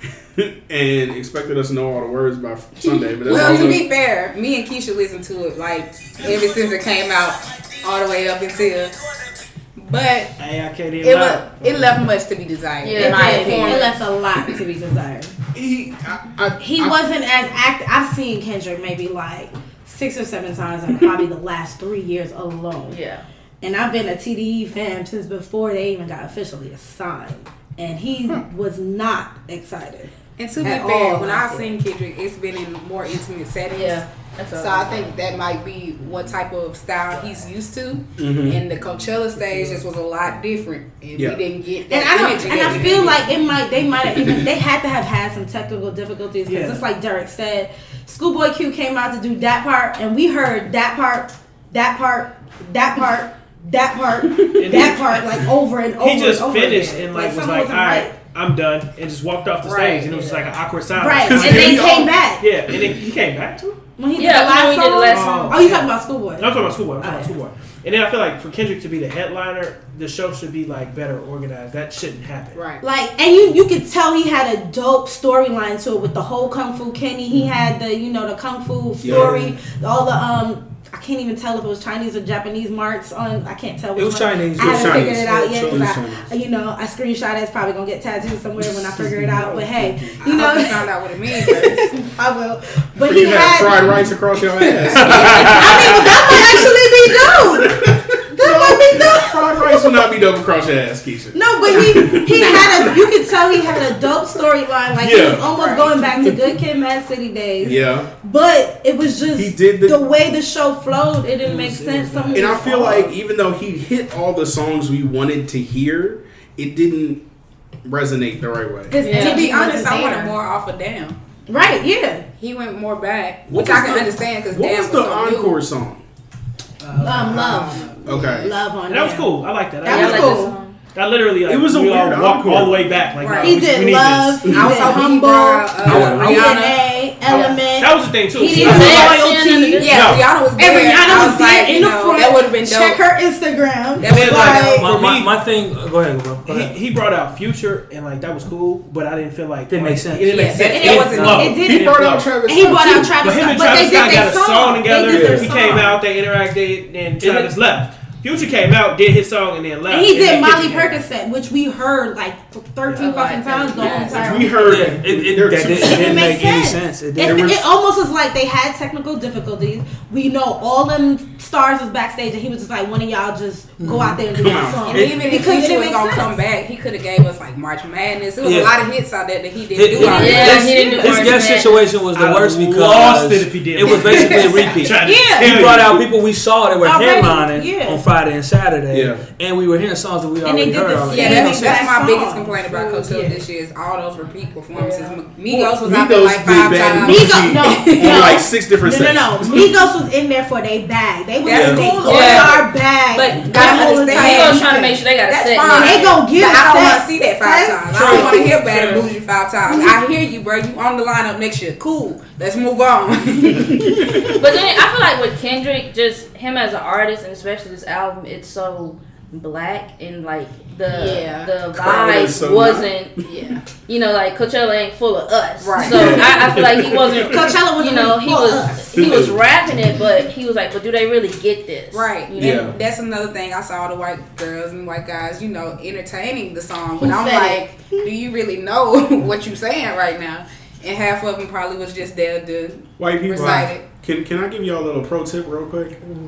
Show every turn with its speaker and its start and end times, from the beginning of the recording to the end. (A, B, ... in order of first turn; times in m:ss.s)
0:00.4-0:03.9 A
0:02.8-0:09.0 B
0:09.8-0:10.3 B
0:10.4-0:12.0 C
0:11.0-0:14.0 B
0:12.8-0:13.9 D
0:13.0-0:15.3 E
0:15.5-0:17.0 A
0:16.6-0:23.0 E
0:22.9-0:23.2 D
0:23.6-0:31.8 E
0:30.4-0:34.0 B
0:33.7-0:35.1 D
0:34.6-0:43.3 B
0:38.2-0:38.6 A
0:39.5-0:39.8 C
0:41.1-0:41.4 A
0:41.9-0:58.1 E
0:46.5-0:46.9 C
0:54.3-0:54.7 A
0:54.6-0:55.2 C
0:56.0-1:03.8 C
0:59.6-1:00.4 B
1:01.0-1:02.4 E
1:01.3-1:02.1 A
1:04.0-1:07.3 E
1:04.2-1:05.6 D
1:05.0-1:12.6 C
1:12.5-1:12.8 B
1:12.8-1:34.0 E
1:19.0-1:19.6 A
1:24.0-1:25.3 F
1:24.6-1:26.3 A
1:28.8-1:30.3 A
1:30.2-1:32.0 B
1:33.0-1:36.7 A
1:34.6-1:35.9 B
1:34.9-1:35.7 F
1:35.3-1:40.0 E
1:37.2-1:42.9 A
1:41.3-1:53.1 E
1:41.7-1:42.9 B
1:45.0-1:45.5 A
1:45.5-1:46.3 B
1:47.6-1:48.1 A
1:49.4-1:50.1 A
1:51.4-1:53.1 C
1:52.3-1:57.2 A
1:57.8-1:59.0 A
1:58.9-2:00.4 E
1:59.0-1:59.5 D
1:59.0-2:01.2 B
2:01.5-2:02.3 E
2:02.4-2:05.6 B
2:03.5-2:06.0 A
2:06.8-2:14.6 C
2:07.0-2:10.6 E
2:07.4-2:08.2 B
2:08.1-2:08.5 A
2:09.9-2:10.8 D
2:11.5-2:12.9 A
2:13.2-2:13.6 B
2:13.4-2:19.9 E
2:14.5-2:17.5 B
2:15.8-2:16.7 F
2:17.3-2:20.3 C
2:18.5-2:20.2 D
2:19.8-2:23.0 B
2:20.6-2:24.9 E
2:24.0-2:24.9 B
2:24.1-2:25.4 C
2:24.7-2:26.8 F
2:26.4-2:32.3 C
2:29.7-2:31.6 F
2:30.2-2:31.6 B
2:30.6-2:36.0 E
2:31.6-2:33.2 A
2:33.2-2:41.0 C
2:35.1-2:35.8 A
2:37.2-2:37.5 F
2:39.9-2:44.8 E
2:43.0-2:44.3 D
2:43.8-2:44.2 B
2:44.1-2:46.3 A
2:44.6-2:47.6 F
2:45.8-2:56.4 E
2:47.2-2:47.6 A
2:53.8-2:54.2 F
2:54.3-2:55.0 A
2:54.9-3:00.7 B
2:54.9-2:55.4 F
2:58.4-2:58.8 F
2:59.7-3:11.9 F
3:00.0-3:01.1 E
3:00.0-3:01.9 D
3:02.1-3:06.1 C
3:03.9-3:04.4 B
3:05.0-3:05.6 E
3:06.8-3:08.0 E
3:08.9-3:09.2 A
3:10.4-3:13.4 E
3:11.1-3:18.4 B
3:14.7-3:15.2 D
3:15.5-3:15.8 E
3:15.7-3:19.8 A
3:17.0-3:25.0 E
3:21.4-3:24.7 B
3:21.5-3:22.0 A
3:22.0-3:22.7 D
3:23.5-3:26.1 D
3:25.2-3:34.4 B
3:25.7-3:28.2 E
3:27.9-3:29.1 D
3:33.8-3:34.2 A
3:34.2-3:43.3 D
3:40.9-3:41.5 B
3:41.7-3:43.2 A
3:43.3-3:43.6 B
3:43.9-3:52.7 D
3:45.6-3:46.6 B
3:45.8-3:47.3 A
3:47.2-3:49.1 E
3:49.0-3:49.8 A
3:51.9-4:03.8 B
3:52.4-3:52.8 A
3:57.0-3:58.1 E
4:03.0-4:06.0 A